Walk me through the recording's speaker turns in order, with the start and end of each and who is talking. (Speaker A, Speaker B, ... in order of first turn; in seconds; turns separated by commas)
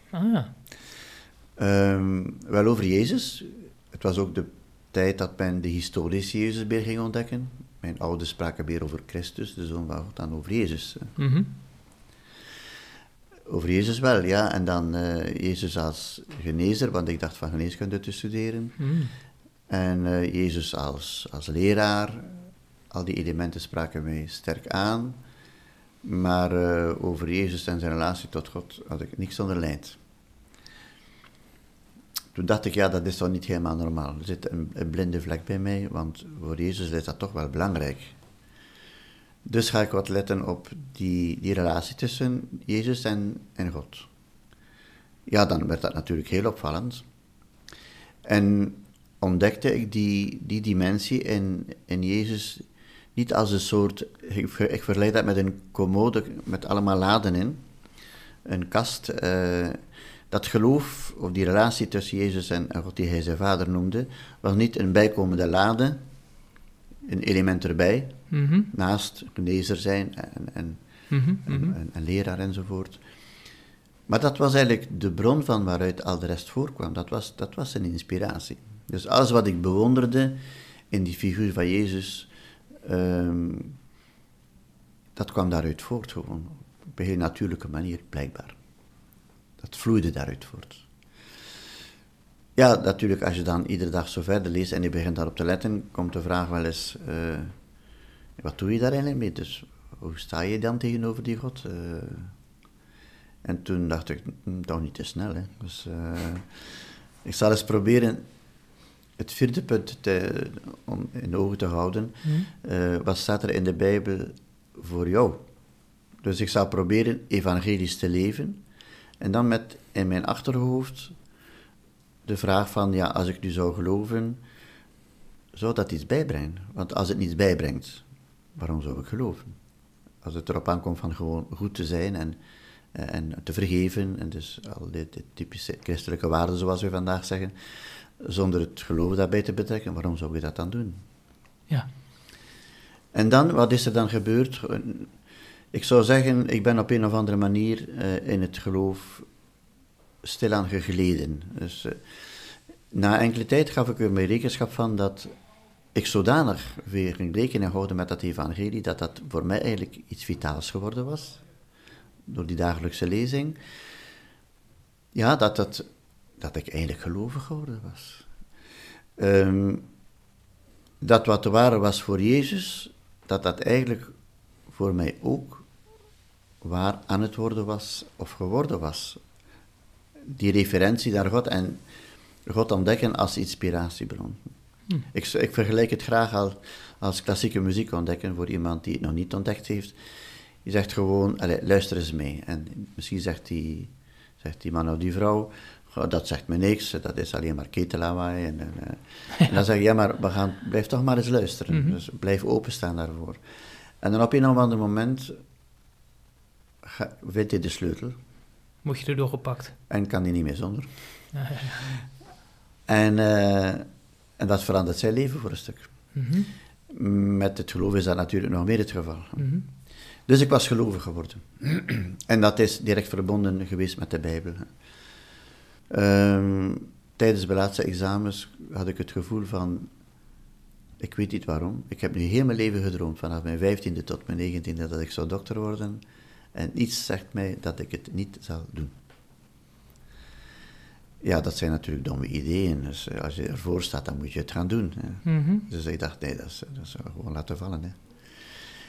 Speaker A: 0.1-0.5, Speaker B: 1.6-11.1, Speaker A: 11.2-11.5, Speaker B: 13.5-18.8, Speaker A: 18.8-19.1, Speaker B: 19.7-25.2, Speaker B: 26.0-30.0, Speaker B: 32.3-38.1, Speaker B: 39.4-44.1, Speaker B: 45.3-47.0, Speaker B: 48.2-57.6, Speaker B: 58.4-66.0, Speaker B: 67.0-73.0, Speaker A: 68.3-68.7, Speaker A: 71.1-71.7, Speaker B: 74.1-82.3, Speaker B: 82.8-83.7, Speaker B: 85.2-88.6, Speaker B: 89.6-90.8, Speaker B: 92.5-97.5, Speaker B: 98.4-102.3, Speaker B: 103.4-108.2, Speaker B: 109.2-115.4, Speaker A: 112.2-112.5, Speaker B: 116.2-118.6, Speaker B: 119.2-121.2, Speaker B: 122.2-124.4, Speaker B: 125.5-128.0, Speaker B: 128.6-129.5, Speaker B: 130.2-132.4, Speaker B: 132.9-141.0, Speaker B: 143.1-145.2, Speaker B: 145.7-149.3, Speaker B: 150.2-152.0, Speaker B: 152.9-155.3, Speaker B: 155.9-161.4, Speaker B: 162.2-163.6, Speaker B: 165.1-168.3, Speaker B: 169.2-169.8, Speaker B: 171.0-174.2, Speaker B: 174.7-175.7, Speaker B: 176.6-179.2, Speaker B: 180.3-181.8, Speaker B: 182.4-184.5, Speaker B: 185.0-190.0, Speaker B: 190.6-203.4, Speaker A: 201.7-202.0, Speaker B: 204.0-205.4, Speaker B: 206.8-208.2, Speaker A: 208.8-209.8, Speaker B: 209.9-211.3, Speaker A: 211.3-211.9, Speaker B: 212.9-213.9, Speaker B: 214.4-216.1, Speaker A: 216.1-216.5, Speaker B: 216.9-219.5, Speaker A: 219.4-219.6, Speaker B: 220.2-224.8, Speaker B: 225.9-229.9, Speaker B: 231.0-236.0, Speaker B: 236.5-238.9, Speaker B: 241.2-248.5, Speaker A: 245.2-245.7